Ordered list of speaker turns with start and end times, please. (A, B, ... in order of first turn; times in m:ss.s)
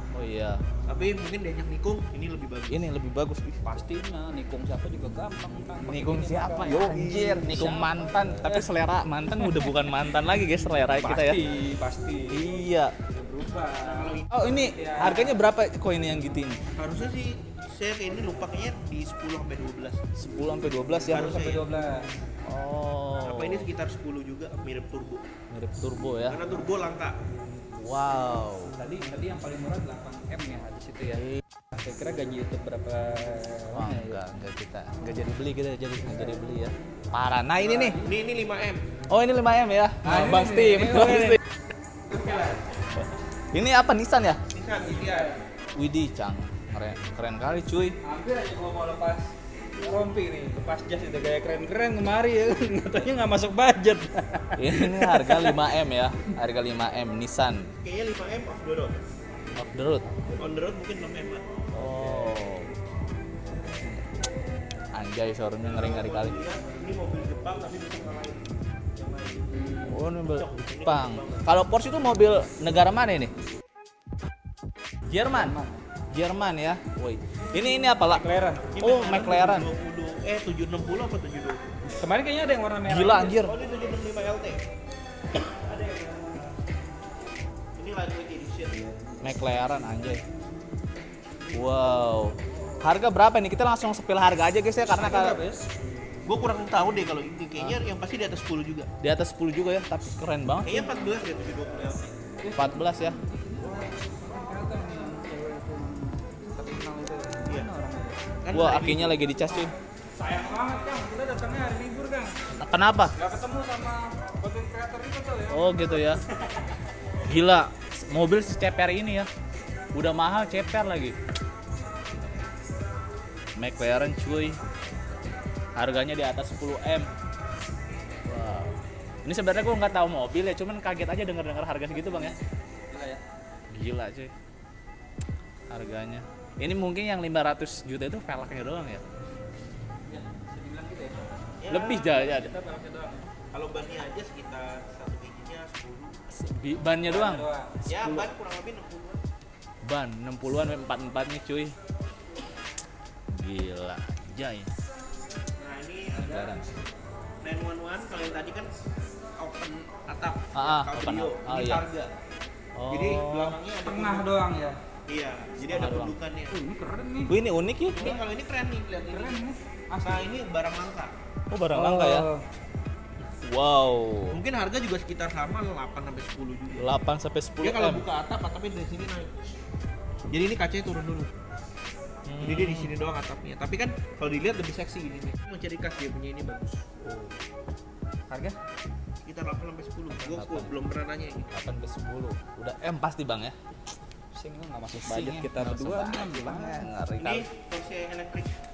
0:00.1-0:00.6 A
0:00.9-0:02.8 B
0:02.7-0:03.6 A
0:03.6-0:08.7 C
0:05.9-0:11.4 A
0:06.7-0:07.9 B
0:09.3-0:09.7 C
0:10.9-0:12.5 C
0:12.3-0:12.9 A
0:13.0-0:15.4 C
0:13.8-0:14.5 B
0:14.3-0:16.6 A
0:16.8-0:20.0 B
0:20.2-0:21.3 A
0:21.1-0:21.7 B
0:21.1-0:22.1 C
0:22.4-0:23.7 A
0:23.2-0:25.2 B
0:25.5-0:26.4 A
0:26.3-0:27.2 B
0:27.7-0:28.8 A
0:28.8-0:34.2 C
0:33.7-0:38.0 A
0:37.6-0:38.2 C
0:38.0-0:38.8 B
0:39.1-0:41.4 A
0:40.0-0:41.4 C
0:42.1-0:42.6 C
0:42.2-0:42.5 B
0:43.5-0:44.4 A
0:44.5-0:45.4 B
0:44.8-0:45.4 C
0:45.8-0:48.0 A
0:48.0-0:55.7 C
0:54.5-0:57.7 A
0:57.8-0:59.0 B
0:59.5-1:00.1 A
1:00.3-1:01.6 B
1:01.7-1:02.7 A
1:01.8-1:02.6 C
1:04.9-1:06.4 A
1:05.6-1:11.5 B
1:09.8-1:13.3 A
1:15.1-1:15.5 A
1:15.3-1:15.8 C
1:16.1-1:18.2 A
1:18.0-1:18.7 C
1:18.7-1:21.6 B
1:18.8-1:19.7 A
1:22.0-1:23.4 C
1:22.8-1:23.5 A
1:23.4-1:24.6 B
1:25.3-1:26.5 B
1:27.8-1:28.9 B
1:29.2-1:30.2 A
1:31.5-1:35.4 A
1:35.0-1:35.6 C
1:36.2-1:38.9 B
1:39.0-1:40.9 A
1:40.6-1:42.0 B
1:42.4-1:48.2 C
1:42.5-1:43.2 A
1:48.4-1:49.2 B
1:48.5-1:49.7 A
1:50.2-1:52.3 C
1:52.6-1:53.1 A
1:53.2-1:56.8 C
1:55.5-1:56.2 A
1:57.2-1:59.3 A
1:59.9-2:01.2 A
2:03.6-2:04.6 A
2:05.8-2:07.1 A
2:08.2-2:12.4 A
2:12.9-2:13.2 C
2:13.7-2:14.3 A
2:15.7-2:19.0 A
2:20.1-2:21.3 C
2:21.6-2:22.1 B
2:21.7-2:22.5 A
2:21.8-2:23.3 C
2:23.5-2:26.1 B
2:26.3-2:28.3 A
2:27.0-2:27.8 C
2:27.9-2:29.2 B
2:29.8-2:31.7 A
2:33.3-2:34.7 A
2:35.6-2:36.6 B
2:36.1-2:36.6 A
2:37.4-2:38.7 B
2:39.4-2:42.1 B
2:40.5-2:41.8 A
2:42.8-2:43.6 A
2:42.9-2:44.3 B
2:43.8-2:44.8 C
2:45.1-2:46.6 B
2:45.7-2:46.2 A
2:46.5-2:47.3 C
2:47.3-2:48.0 A
2:47.9-2:49.4 B
2:49.0-2:50.3 C
2:50.0-2:51.1 B
2:51.5-2:52.3 A
2:51.7-2:52.4 C
2:53.4-2:54.4 A
2:54.3-2:56.9 B
2:56.8-2:58.0 A
2:57.6-2:59.5 B
3:00.3-3:01.3 B
3:02.3-3:07.0 B
3:07.0-3:07.3 A
3:08.3-3:08.6 C
3:09.2-3:11.5 B
3:10.2-3:10.7 A
3:11.5-3:13.6 A
3:14.3-3:16.9 C
3:14.9-3:17.4 A
3:17.2-3:18.5 B